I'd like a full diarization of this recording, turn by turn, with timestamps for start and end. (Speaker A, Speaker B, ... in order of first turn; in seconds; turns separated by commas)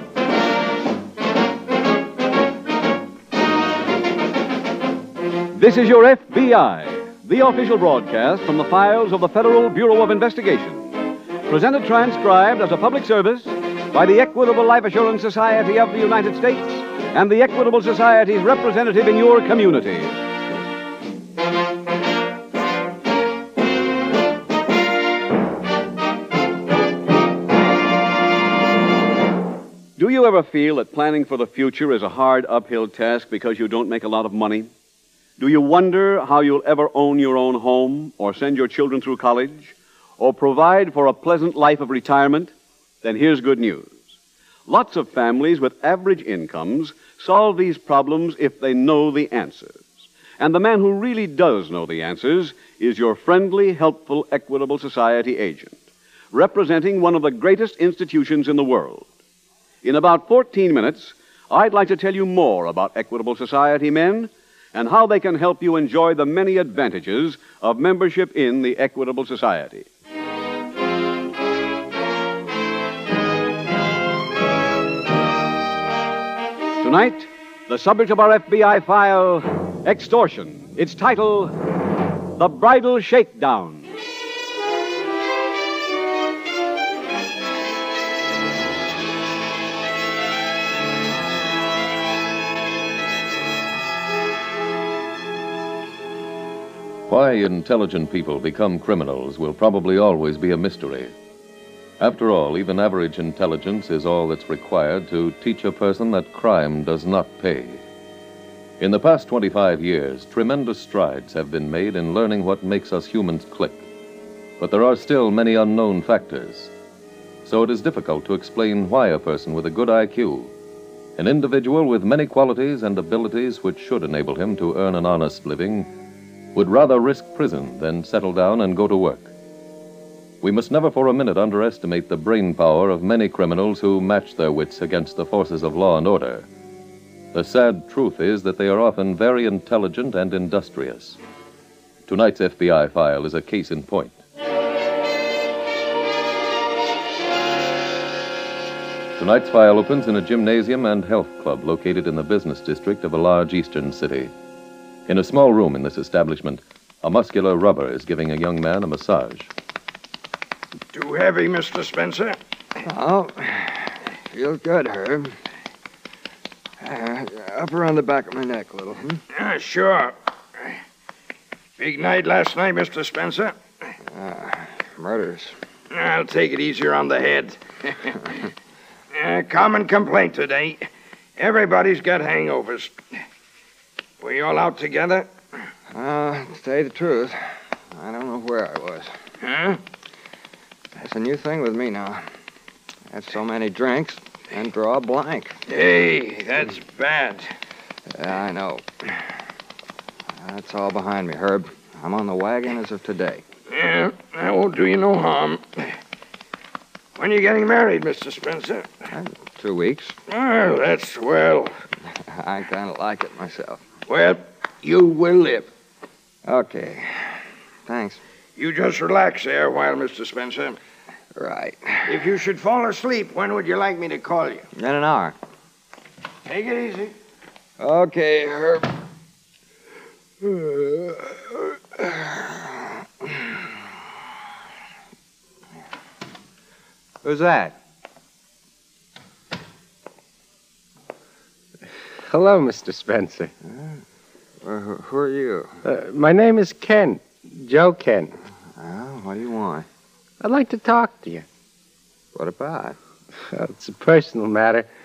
Speaker A: 5.5-10.9, Speaker A: 11.5-20.2, Speaker A: 30.0-34.7, Speaker A: 35.4-44.0, Speaker A: 44.7-59.1, Speaker A: 59.8-69.9, Speaker A: 76.8-81.6, Speaker A: 82.4-83.9, Speaker B: 97.1-101.1, Speaker B: 102.0-107.8, Speaker B: 108.8-113.8, Speaker B: 114.6-116.7, Speaker B: 117.4-120.5, Speaker B: 121.2-125.9, Speaker B: 126.5-129.3, Speaker B: 130.4-136.5, Speaker B: 137.3-141.2, Speaker B: 142.1-144.2, Speaker B: 149.2-154.3, Speaker B: 155.1-159.5, Speaker C: 160.9-162.4, Speaker D: 162.9-165.4, Speaker D: 166.8-169.2, Speaker C: 169.3-170.2, Speaker C: 171.8-173.9, Speaker D: 174.0-175.6, Speaker C: 175.9-178.2, Speaker C: 179.1-183.0, Speaker C: 184.2-185.3, Speaker D: 185.9-189.2, Speaker C: 189.4-189.8, Speaker D: 190.9-192.3, Speaker D: 193.1-195.6, Speaker C: 195.7-197.5, Speaker D: 198.1-199.2, Speaker D: 200.3-203.4, Speaker C: 203.7-206.0, Speaker C: 207.2-209.0, Speaker D: 209.1-210.2, Speaker C: 210.3-211.8, Speaker D: 212.1-213.8, Speaker C: 214.1-215.7, Speaker D: 216.4-218.2, Speaker C: 218.6-220.8, Speaker D: 221.3-222.3, Speaker C: 222.1-224.7, Speaker D: 224.8-225.4, Speaker C: 226.4-227.2, Speaker D: 227.8-228.9, Speaker D: 230.4-231.3, Speaker D: 232.0-232.7, Speaker D: 237.2-237.8, Speaker E: 242.3-243.5, Speaker D: 243.7-244.0, Speaker D: 244.6-245.8, Speaker E: 245.8-248.4, Speaker D: 248.8-249.9, Speaker E: 250.4-251.5, Speaker D: 252.3-253.0, Speaker E: 253.5-254.9